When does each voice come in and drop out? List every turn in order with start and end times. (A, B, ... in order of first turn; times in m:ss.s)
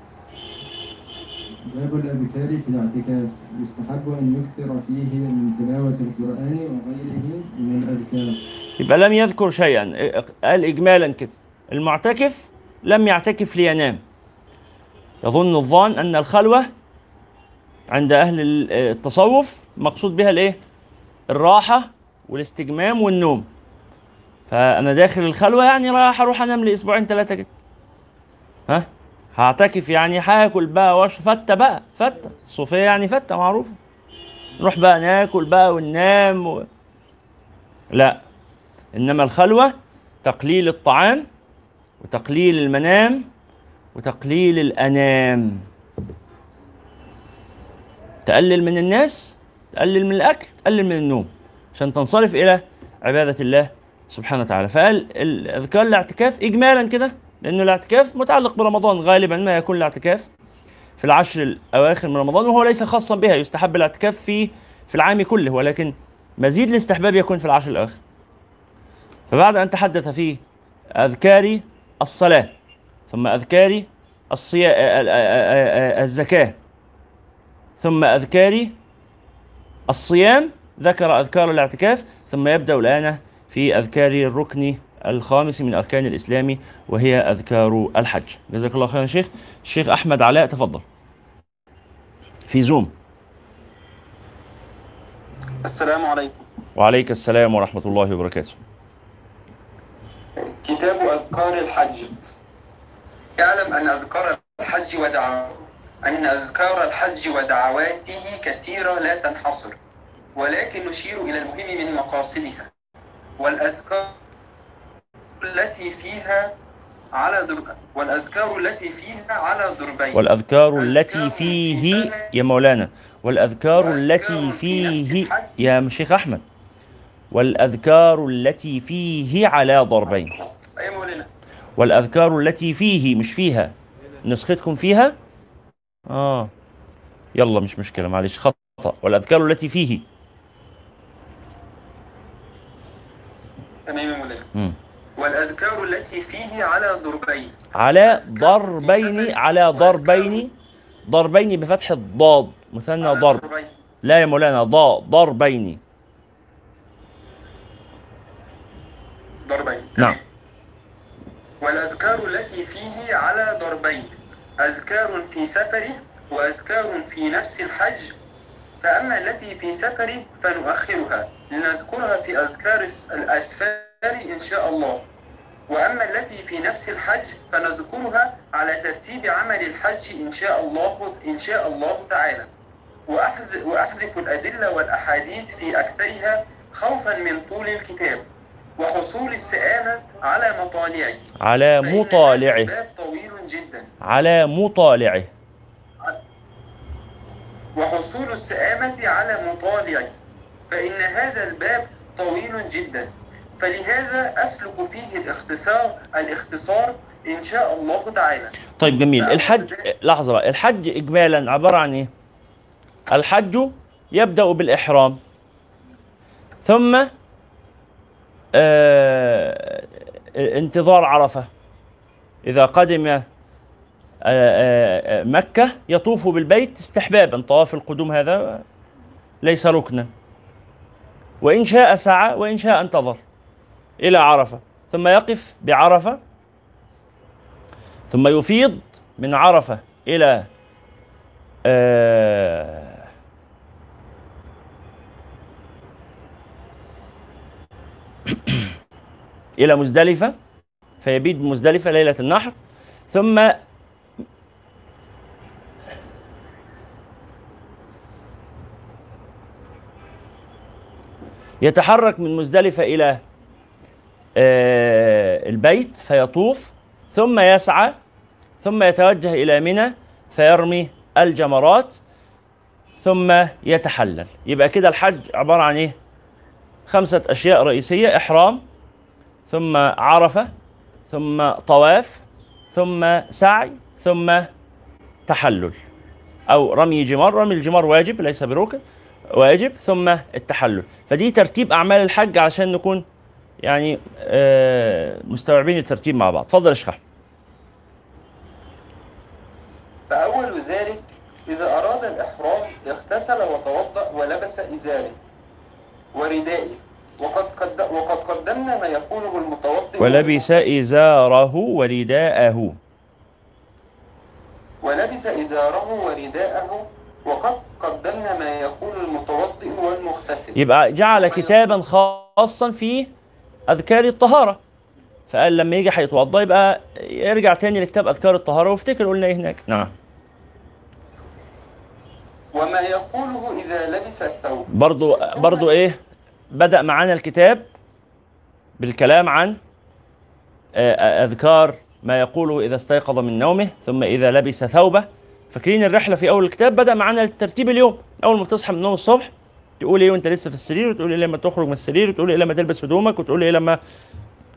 0:01.7-0:08.4 A
0:08.8-0:14.0 B
0:15.2-0:16.7 B
0:17.9-0:20.6 B
0:21.3-0:23.5 B
0:24.5-0:27.5 B
0:28.7-0:33.8 B
0:34.6-0:36.6 B
0:37.9-0:38.2 B
0:38.9-0:41.3 B
0:42.0-0:43.3 B
0:43.9-0:45.6 B
0:48.2-1:00.3 B
1:01.0-1:08.0 B
1:09.3-1:10.4 B
1:11.0-1:12.5 B
1:13.1-1:16.6 B
1:17.8-1:18.8 B
1:19.9-1:30.8 B
1:32.5-1:32.9 B
1:35.6-1:36.4 C
1:36.8-1:38.6 B
1:40.4-1:42.3 C
1:43.4-1:49.8 C
1:50.4-1:52.7 C
1:53.4-1:54.2 C
1:55.4-1:56.5 C
1:57.1-2:00.2 C
2:00.1-2:06.4 B
2:00.8-2:02.3 C
2:03.7-2:05.5 C
2:07.3-2:10.3 B
2:10.8-2:11.3 C
2:11.8-2:15.1 B
2:16.1-2:16.5 B
2:17.3-2:20.0 B
2:23.8-2:24.5 C
2:25.2-2:30.4 C
2:27.7-2:30.5 B
2:31.1-2:33.4 B
2:33.0-2:33.7 C
2:34.0-2:35.8 B
2:39.4-2:40.2 C
2:41.6-2:48.1 C
2:48.8-2:55.0 C
2:55.7-3:02.5 C
3:03.1-3:08.2 C
3:08.8-3:11.2 C
3:11.4-3:12.7 B
3:11.8-3:13.9 C
3:14.0-3:15.3 B
3:17.8-3:20.2 C
3:20.7-3:28.6 C
3:28.8-3:32.1 B
3:29.2-3:29.8 C
3:33.1-3:35.2 B
3:36.6-3:37.1 B
3:38.6-3:41.5 B
3:42.4-3:43.2 B
3:44.2-3:48.6 B
3:49.4-3:50.1 B
3:51.4-3:53.2 B
3:54.0-3:56.2 B
3:58.1-4:00.5 B
4:01.7-4:03.0 B
4:08.3-4:08.7 B
4:09.6-4:10.4 B
4:11.0-4:12.6 B
4:13.1-4:13.6 B
4:21.6-4:23.2 B
4:24.4-4:28.0 B
4:28.6-4:32.0 B
4:33.0-4:36.0 B
4:36.9-4:38.6 B
4:39.5-4:40.5 B
4:41.1-4:44.5 B
4:45.3-4:45.8 B
4:46.5-4:48.8 B
4:49.3-4:53.0 B
4:53.6-4:57.0 B
5:00.1-5:05.2 C
5:06.1-5:10.7 C
5:10.0-5:12.8 B
5:14.8-5:20.6 C
5:20.5-5:23.1 B
5:21.1-5:21.5 C
5:23.7-5:24.6 B
5:25.3-5:29.9 B
5:32.5-5:35.8 C
5:34.7-5:36.0 B
5:36.5-5:37.7 B
5:38.8-5:39.6 B
5:40.8-5:53.8 B